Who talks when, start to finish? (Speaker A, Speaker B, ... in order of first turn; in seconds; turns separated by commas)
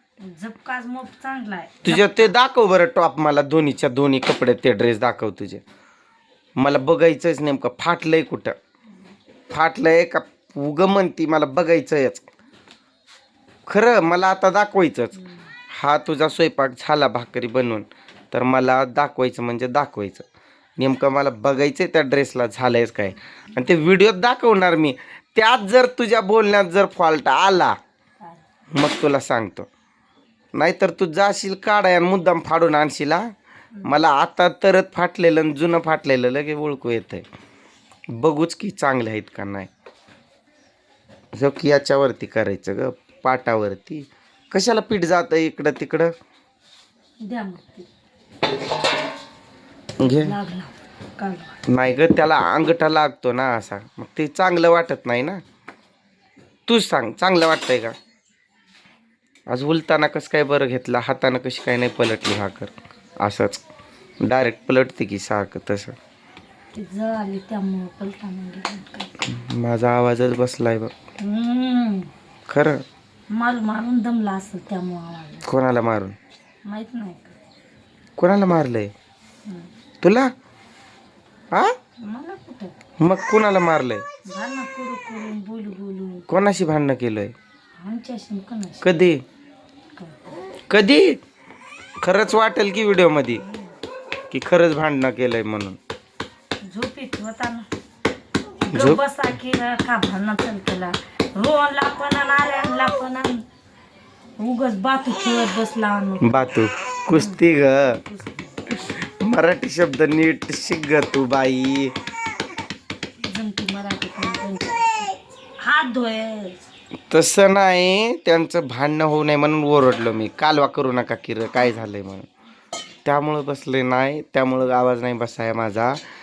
Speaker A: 0.2-2.3, Speaker B: 1.9-5.6, Speaker B: 6.6-8.6, Speaker B: 9.5-12.3, Speaker B: 13.7-15.2, Speaker A: 15.2-15.5, Speaker B: 15.7-20.3, Speaker B: 20.8-27.8, Speaker B: 28.7-29.7, Speaker B: 30.6-33.3, Speaker B: 33.8-37.2, Speaker B: 38.1-39.7, Speaker B: 41.3-46.1, Speaker A: 47.2-47.9, Speaker B: 50.0-50.4, Speaker A: 50.1-51.6, Speaker B: 51.7-55.4, Speaker B: 56.7-58.0, Speaker B: 59.5-63.6, Speaker B: 64.2-66.0, Speaker A: 66.7-69.2, Speaker B: 69.2-70.9, Speaker A: 71.2-72.1, Speaker B: 72.5-72.8, Speaker A: 73.3-75.5, Speaker B: 75.4-76.2, Speaker A: 76.7-77.3, Speaker B: 78.2-78.9, Speaker A: 79.5-79.7, Speaker B: 80.0-80.3, Speaker A: 82.0-82.8, Speaker B: 83.0-84.0, Speaker A: 84.3-86.3, Speaker B: 86.3-87.3, Speaker A: 87.8-88.8, Speaker B: 88.8-89.2, Speaker A: 90.0-90.2, Speaker B: 90.7-91.2, Speaker B: 92.0-93.4, Speaker A: 93.3-93.8, Speaker B: 94.3-95.8, Speaker A: 96.6-97.7, Speaker A: 98.7-103.5, Speaker B: 98.7-99.0, Speaker A: 104.4-106.3, Speaker B: 106.2-108.0, Speaker A: 107.1-109.0, Speaker B: 108.8-111.9, Speaker A: 113.2-116.6, Speaker B: 117.1-122.3, Speaker B: 123.0-126.0